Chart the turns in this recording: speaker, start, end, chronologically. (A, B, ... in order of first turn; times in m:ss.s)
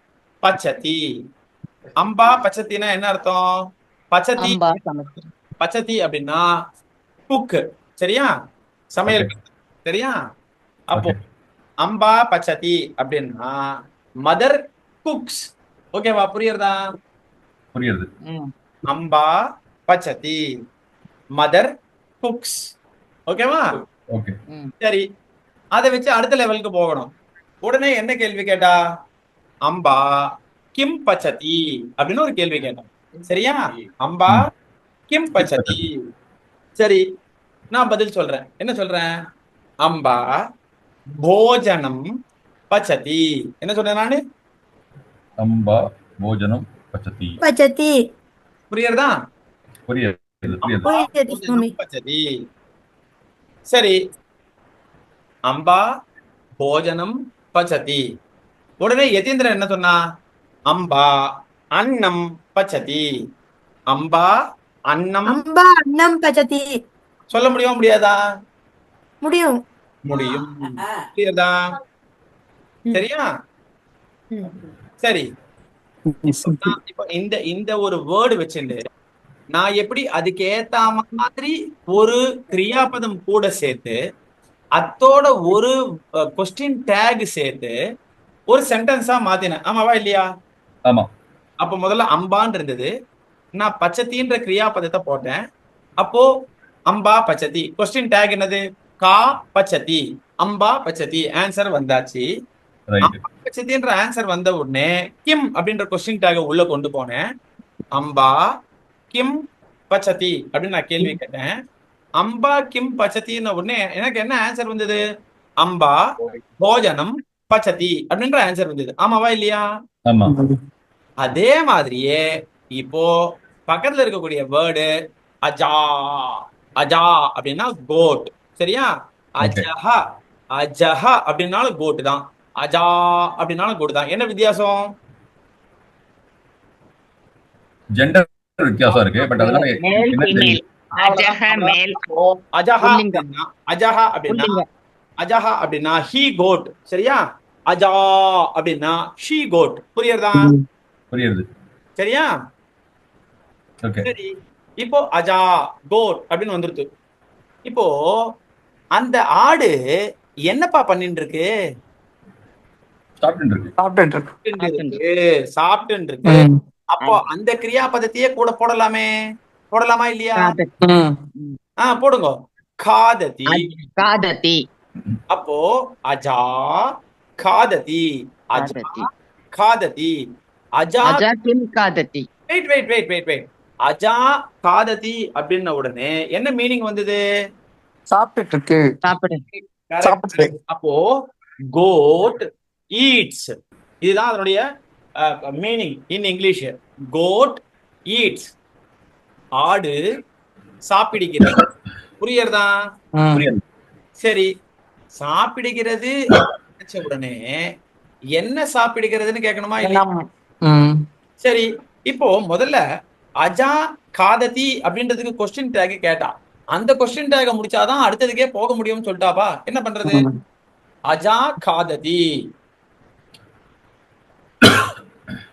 0:00.4-0:01.0 A
0:02.0-0:03.4 A
0:04.1-0:04.6 A
0:04.4-0:05.2 B
0:05.6-0:06.4 A
0:07.3-0:08.3 A
0:08.9-0:10.2 A
0:11.0-0:11.2 C
0:11.8-0:13.6 A
0:14.2-0:16.8 A
0:17.7-0:18.1 C
0:18.9-0:19.3 A
0:19.9-0:20.4 A
0:21.4-0:21.7 A
0:22.2-0:22.6 A
0:23.3-0:23.6 A
0:24.8-0:25.0 A
0:25.8-0:27.1 A
0:27.6-0:28.7 A
0:29.7-0:30.0 A
0:30.7-0:34.5 A
0:35.1-0:35.9 A
0:35.4-0:35.8 C
0:36.8-0:37.0 A
0:37.7-0:39.1 A
0:39.8-0:40.3 A
0:41.2-0:42.0 A
0:42.7-0:44.2 A
0:45.4-0:47.4 C
0:47.4-0:48.0 D
0:48.7-0:49.1 A
0:49.9-0:50.9 C
0:50.6-0:52.2 A
0:50.8-0:51.7 D
0:53.7-0:54.0 A
0:55.5-0:55.8 A
0:56.6-0:58.0 A
0:58.8-0:59.9 A
1:00.7-1:01.1 A
1:01.8-1:03.0 A
1:03.9-1:04.3 A
1:04.9-1:05.4 A
1:05.3-1:06.7 D
1:07.3-1:08.2 A
1:09.2-1:09.5 D
1:10.0-1:11.5 A
1:12.9-1:13.2 A
1:14.3-1:14.6 D
1:16.1-1:16.7 E
1:16.4-1:18.8 A
1:19.5-1:24.0 A
1:24.8-1:25.7 A
1:26.4-1:27.8 A
1:28.5-1:30.2 A
1:31.6-1:32.9 A
1:33.6-1:35.4 A
1:36.0-1:36.3 A
1:36.9-1:42.2 A
1:42.9-1:43.2 C
1:43.0-1:47.2 A
1:47.9-1:48.4 A
1:49.9-1:51.5 A
1:52.2-1:55.0 A
1:55.6-1:56.0 A
1:56.6-1:59.6 A
2:00.0-2:00.3 C
2:00.2-2:00.6 E
2:01.2-2:02.2 A
2:02.8-2:03.1 A
2:03.7-2:04.9 A
2:05.4-2:08.9 A
2:09.4-2:10.0 A
2:09.4-2:09.7 C
2:10.6-2:14.8 A
2:18.0-2:20.6 C
2:19.3-2:22.0 B
2:20.9-2:24.6 A
2:22.8-2:23.2 B
2:24.3-2:24.6 B
2:25.2-2:30.5 A
2:31.1-2:31.4 C
2:32.0-2:32.3 A
2:34.0-2:36.9 A
2:39.0-2:39.7 A
2:40.5-2:41.5 A
2:43.2-2:43.7 C
2:43.8-2:44.3 E
2:44.4-2:49.1 A
2:44.6-2:45.0 B
2:46.3-2:46.5 E
2:49.7-2:50.6 A
2:50.4-2:50.7 B
2:50.8-2:51.2 E
2:51.8-2:53.6 A
2:53.5-2:54.6 B
2:55.3-2:56.8 A
2:57.4-3:00.1 A
2:58.6-2:59.1 B
3:00.8-3:01.2 A
3:01.0-3:02.2 B
3:02.5-3:07.2 A
3:08.1-3:08.8 E
3:09.0-3:09.4 B
3:09.5-3:11.1 A
3:10.0-3:10.5 E
3:11.7-3:14.6 A
3:15.2-3:18.5 A
3:19.6-3:20.0 A
3:20.9-3:21.6 A
3:22.2-3:22.7 A
3:23.2-3:23.4 E
3:23.3-3:23.6 C
3:24.2-3:24.5 A
3:25.2-3:26.1 A
3:26.8-3:27.4 A
3:28.4-3:30.0 A
3:29.8-3:31.0 E
3:31.4-3:32.8 A
3:33.4-3:40.2 A
3:40.0-3:40.3 E
3:41.1-3:42.2 A
3:44.6-3:44.9 C